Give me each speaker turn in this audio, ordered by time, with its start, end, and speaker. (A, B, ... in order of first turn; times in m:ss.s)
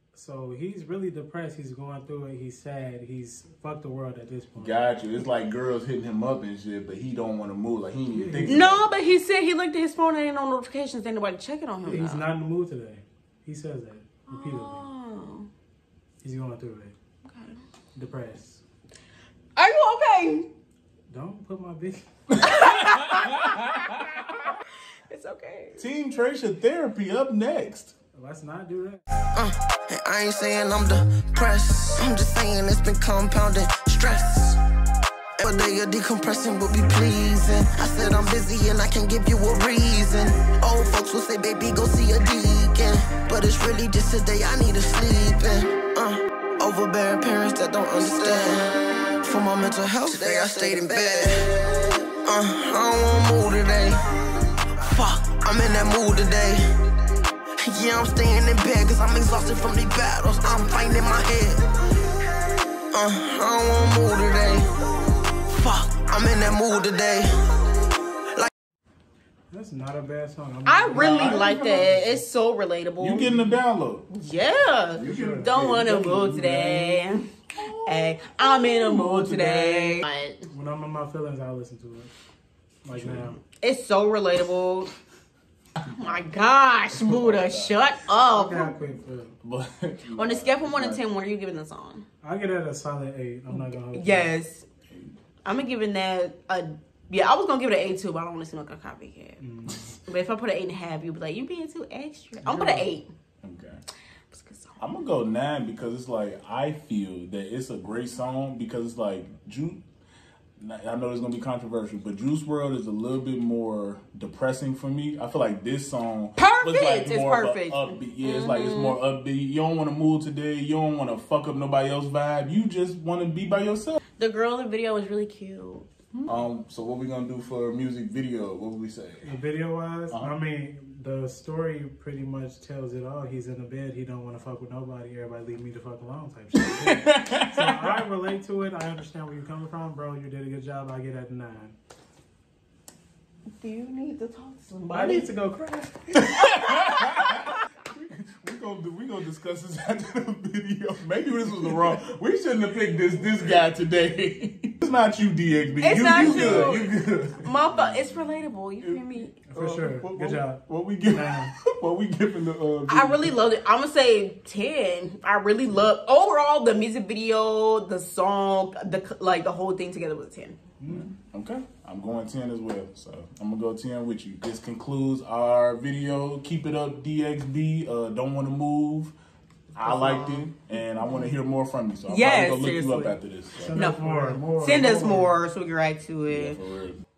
0:00.1-0:04.8 A
0:04.6-0:08.9 B
0:08.1-0:08.8 A
0:08.5-0:12.2 C
0:11.8-0:14.9 A
0:14.3-0:15.5 C
0:16.2-0:17.0 A
0:17.2-0:17.6 C
0:17.9-0:18.6 A
0:19.6-0:20.5 C
0:21.1-0:22.0 A
0:22.4-0:23.5 B
0:22.4-0:24.6 C
0:25.1-0:25.8 C
0:25.8-0:27.9 B
0:28.1-0:29.0 A
0:29.3-0:34.6 D
0:35.4-0:51.5 D
0:52.2-0:56.6 D
0:57.6-1:01.7 D
1:02.9-1:04.7 D
1:05.4-1:07.5 D
1:09.5-1:12.2 A
1:10.6-1:13.3 C
1:10.9-1:11.9 B
1:13.0-1:14.1 B
1:14.1-1:20.4 C
1:14.9-1:17.0 B
1:15.0-1:15.5 A
1:17.5-1:20.0 B
1:20.5-1:22.1 A
1:22.8-1:23.4 A
1:22.9-1:23.3 B
1:23.5-1:24.9 C
1:25.9-1:28.8 C
1:26.9-1:27.9 B
1:28.2-1:29.3 A
1:29.4-1:31.0 B
1:30.1-1:32.0 C
1:32.2-1:34.3 A
1:33.5-1:34.6 C
1:35.4-1:39.4 C
1:39.4-1:40.0 A
1:40.0-1:43.1 C
1:42.4-1:42.9 A
1:43.4-1:43.8 B
1:44.3-1:44.8 C
1:44.8-1:49.8 B
1:50.6-2:04.0 B
1:56.4-1:59.0 C
2:04.2-2:05.9 C
2:06.2-2:09.3 B
2:09.2-2:21.8 A
2:16.8-2:18.0 B
2:23.5-2:25.3 C
2:24.9-2:26.3 A
2:26.1-2:38.0 B
2:26.6-2:27.6 C
2:35.8-2:39.4 C
2:36.2-2:36.8 A
2:38.8-2:43.4 B
2:39.5-2:41.5 A
2:42.9-2:50.6 C
2:50.8-2:51.1 A
2:50.9-2:59.1 B
2:59.7-3:04.3 B
2:59.8-3:00.5 C
3:00.8-3:01.3 A
3:02.1-3:03.2 C
3:03.5-3:05.4 A
3:03.7-3:06.6 C
3:06.3-3:07.0 B